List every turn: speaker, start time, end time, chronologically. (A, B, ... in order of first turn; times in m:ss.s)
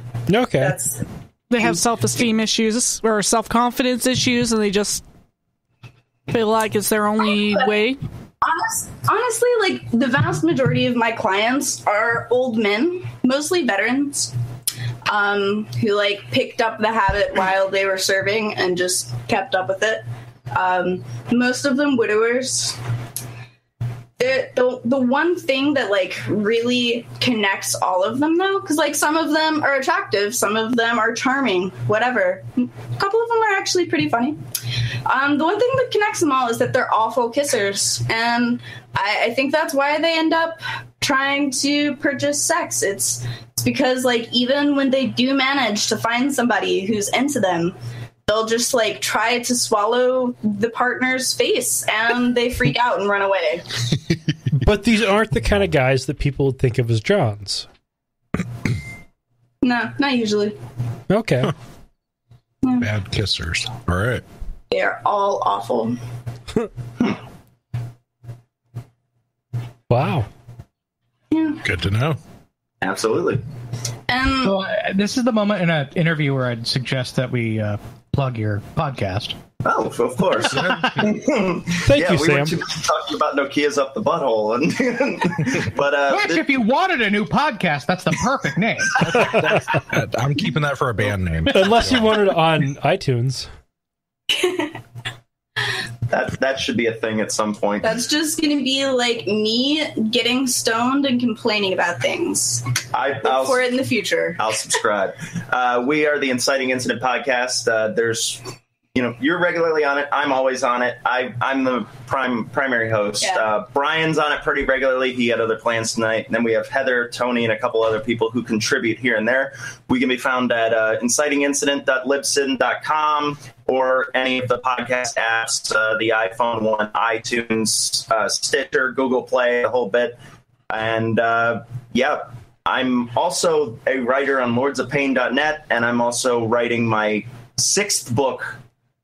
0:00.3-0:00.8 A
0:00.6-0:01.0 B
0:01.5-0:05.0 C
0:06.3-0:08.0 C
0:08.4-0:14.3 B
0:15.1-0:22.8 B
0:24.2-0:34.4 B
0:35.1-0:53.7 B
0:54.6-0:57.7 A
0:59.6-1:00.6 B
1:01.1-1:01.5 A
1:02.6-1:02.9 B
1:02.8-1:04.2 D
1:04.7-1:06.0 B
1:09.9-1:10.3 A
1:11.3-1:11.6 B
1:11.6-1:12.2 D
1:12.8-1:13.4 E
1:14.1-1:14.5 B
1:14.4-1:19.4 F
1:19.6-1:26.5 E
1:20.6-1:20.9 D
1:21.8-1:22.6 A
1:26.1-1:29.1 F
1:29.2-1:32.1 D
1:31.5-1:33.5 A
1:34.3-1:34.8 B
1:36.1-1:38.0 E
1:37.8-1:42.6 B
1:42.9-1:43.7 E
1:43.2-1:44.4 B
1:44.4-2:10.2 E
1:53.2-1:53.5 B
2:10.7-2:18.6 E